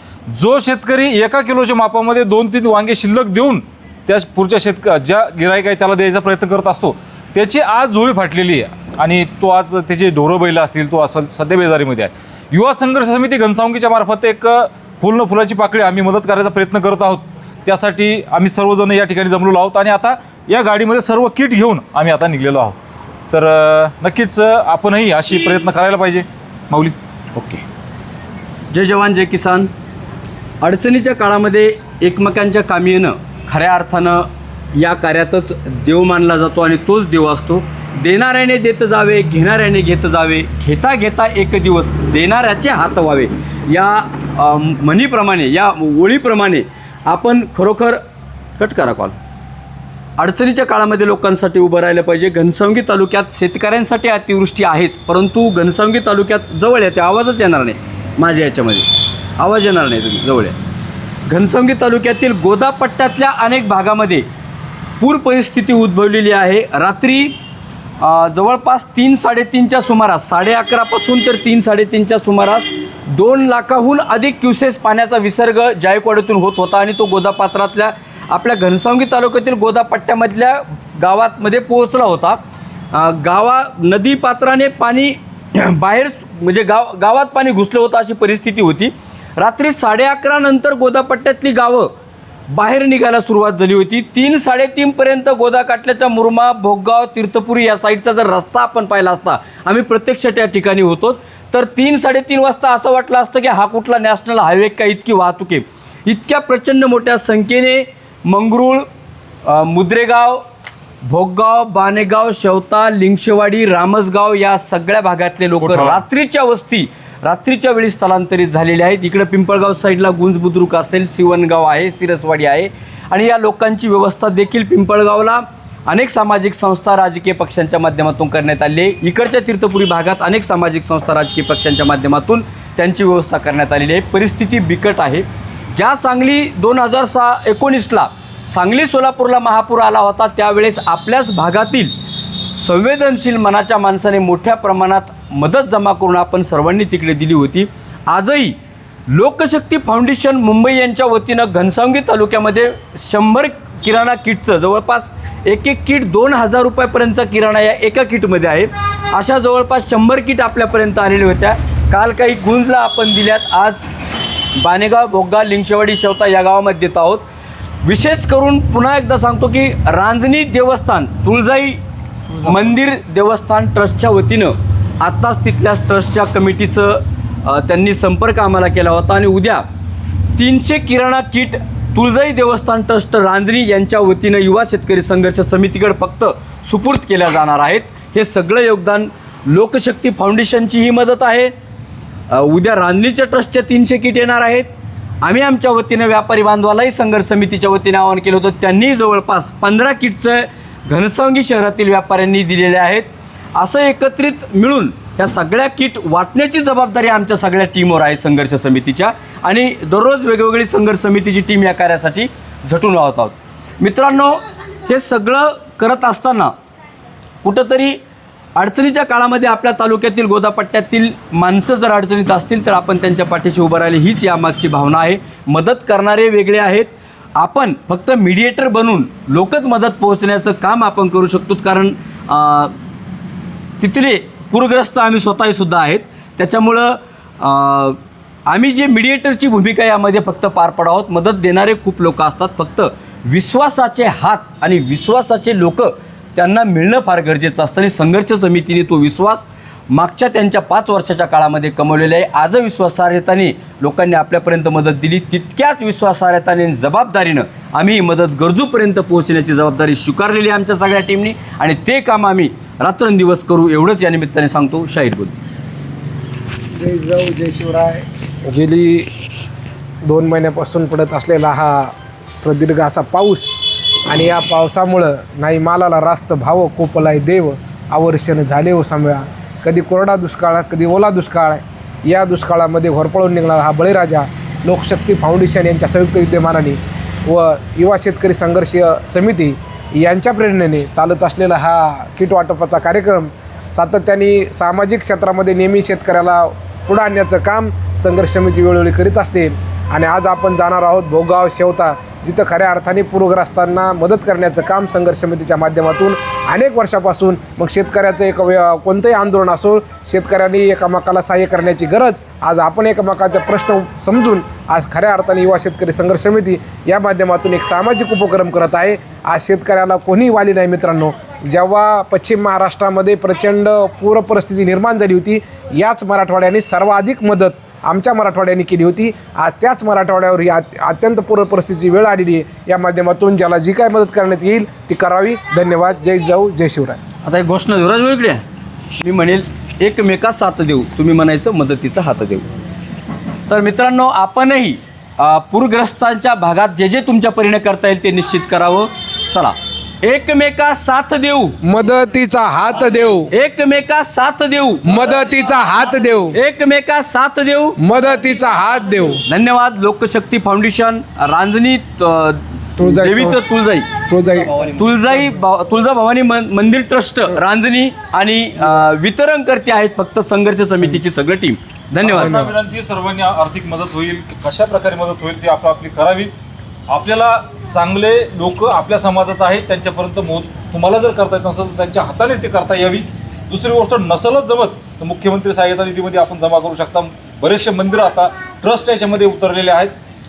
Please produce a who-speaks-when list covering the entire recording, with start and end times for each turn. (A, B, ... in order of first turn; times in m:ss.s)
0:00.3-0:22.8 A
0:23.3-0:27.5 A
0:28.7-0:29.7 B
0:30.6-0:48.0 B
0:48.6-0:49.1 B
0:50.2-0:58.9 B
0:59.4-1:00.6 B
1:01.3-1:04.2 B
1:05.0-1:07.4 B
1:08.0-1:22.4 B
1:22.9-1:31.9 B
1:32.5-1:48.8 B
1:49.4-1:50.4 B
1:51.0-2:21.9 B
1:55.6-1:56.0 A
2:22.6-2:28.6 B
2:29.1-2:43.8 B
2:44.6-2:47.2 B
2:47.8-2:51.8 B
2:52.3-2:59.6 B
3:00.4-3:11.5 B
3:12.3-3:14.7 B
3:15.2-3:36.5 B
3:37.4-3:38.0 B
3:38.6-3:52.7 B
3:53.8-4:25.4 B
4:26.8-4:29.1 C
4:30.0-5:37.0 C
5:37.2-5:38.4 B
5:39.0-5:42.5 B
5:43.5-5:51.6 B
5:51.6-5:53.3 C
5:53.3-5:54.9 B
5:54.8-5:56.4 C
5:56.3-5:57.8 B
5:57.8-5:59.2 C
5:59.3-6:03.9 B
6:02.8-6:03.4 C
6:04.1-6:04.6 C
6:04.5-6:12.5 B
6:12.0-6:16.3 A
6:12.1-6:12.5 C
6:16.9-6:29.9 A